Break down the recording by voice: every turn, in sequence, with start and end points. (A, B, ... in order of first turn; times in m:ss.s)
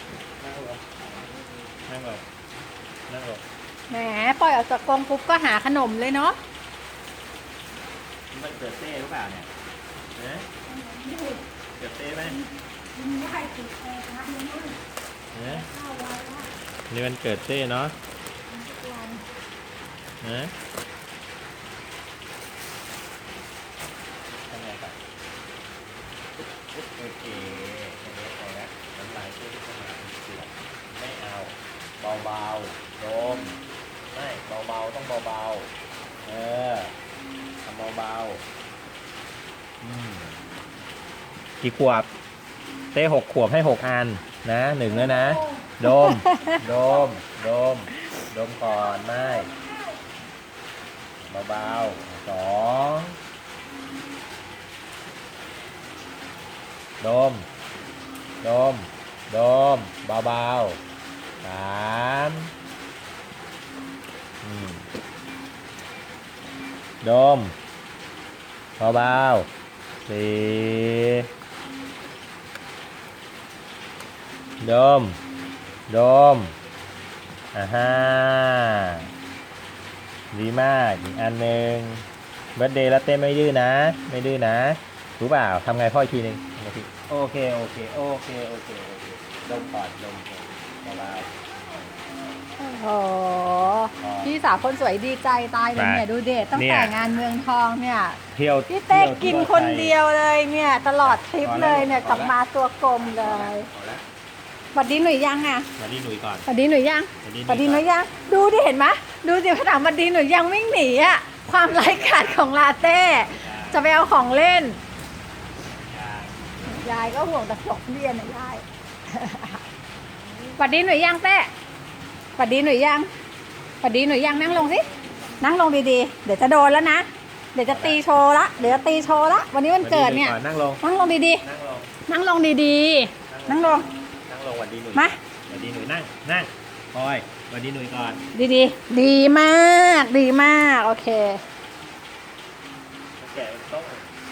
0:00.4-0:00.9 A
0:01.9-0:02.2 A
0:03.1-0:03.4 A
0:03.9-0:06.4 B
0:08.3-0:09.5 A
0:10.2-0:10.5 A
0:10.7-0:11.4 B
0:11.8-0:12.4 A
0:12.2-0:14.8 B
0:15.3-0:15.7 A
0:15.4-0:16.5 B
0:16.9-0:17.9 A
0:18.5-0:19.2 B
0:20.2-0:20.5 A
0:24.5-0:25.0 A
0:26.8-0:33.6 A
0:34.1-0:35.7 A
0:36.2-0:36.9 A
0:37.6-0:38.4 A
0:39.8-0:40.4 A
0:41.6-0:42.1 A
0:42.9-0:49.5 A
0:44.9-0:47.0 B
0:48.8-0:49.9 B
0:51.2-0:53.2 A
0:57.0-0:57.5 A
0:58.4-1:00.8 A
1:01.4-1:02.5 A
1:04.4-1:04.8 A
1:07.0-1:07.5 A
1:08.8-1:09.5 A
1:10.0-1:11.2 A
1:14.6-1:15.2 A
1:15.9-1:16.5 A
1:17.5-1:19.0 A
1:20.3-1:31.7 A
1:32.6-1:43.7 B
1:34.0-1:34.4 A
1:35.8-1:37.1 A
1:38.3-1:40.0 A
1:41.0-1:42.3 A
1:43.0-1:44.0 A
1:44.7-1:45.7 B
1:45.8-1:46.4 A
1:46.5-1:54.8 B
1:47.2-1:47.9 A
1:51.6-1:52.5 A
1:53.1-1:54.0 A
1:55.8-1:56.5 A
1:56.7-1:59.6 B
2:00.6-2:01.5 B
2:02.4-2:03.1 B
2:03.8-2:04.8 B
2:05.4-2:11.4 B
2:07.6-2:08.0 A
2:09.8-2:10.8 A
2:11.4-2:11.9 A
2:12.0-2:13.9 B
2:13.3-2:18.2 A
2:18.3-2:21.4 B
2:23.2-2:24.1 A